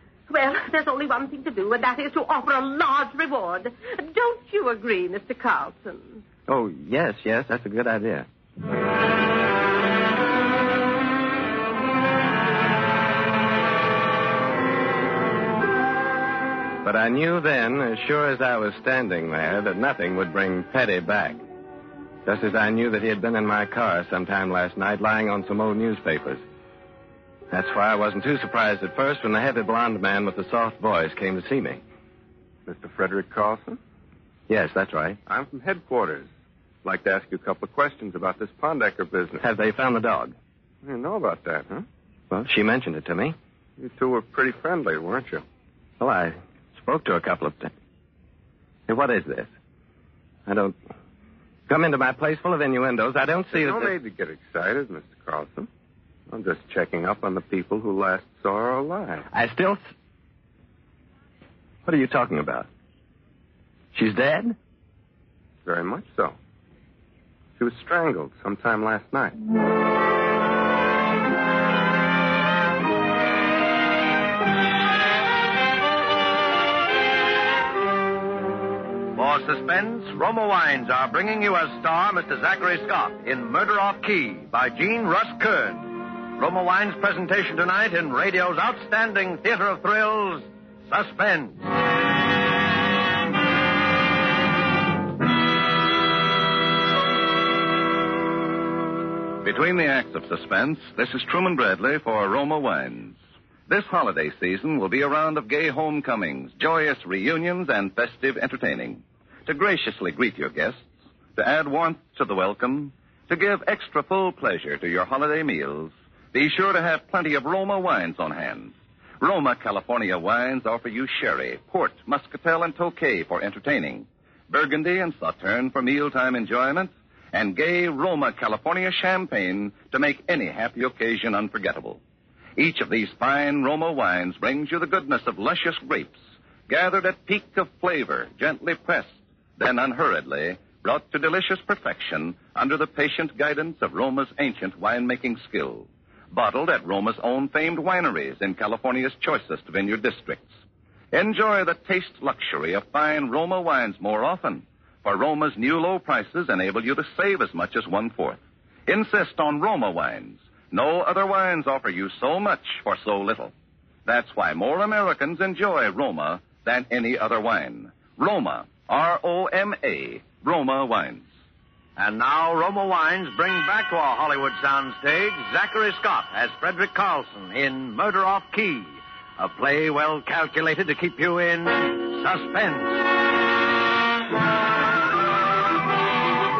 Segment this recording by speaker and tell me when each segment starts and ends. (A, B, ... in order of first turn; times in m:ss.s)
0:00.3-0:06.2 A
0:06.5-0:08.3 B
0:16.8-0:21.4 B
0:22.2-0:26.4 B
0:27.5-0:31.8 B
0:32.7-0:33.8 C
0:34.5-0:35.2 B
0:35.2-0:36.3 C
0:36.8-0:39.5 C
0:39.4-0:40.4 B
0:40.8-0:41.8 C
0:42.3-0:43.4 B
0:43.8-0:45.4 C
0:46.0-0:47.7 B
0:48.9-0:49.5 B
0:50.4-0:50.8 B
0:51.7-0:53.9 B
0:53.5-0:55.7 C
0:56.3-0:59.3 C
0:59.3-0:59.8 B
1:01.8-1:02.7 B
1:03.9-1:04.6 B
1:05.6-1:06.4 C
1:07.6-1:09.4 C
1:19.1-1:31.6 D
1:39.4-1:43.2 E
1:43.7-1:50.8 E
1:51.4-2:12.0 E
2:12.6-2:30.5 E
2:31.1-2:43.5 E
2:44.0-2:51.3 E
2:52.0-3:03.0 D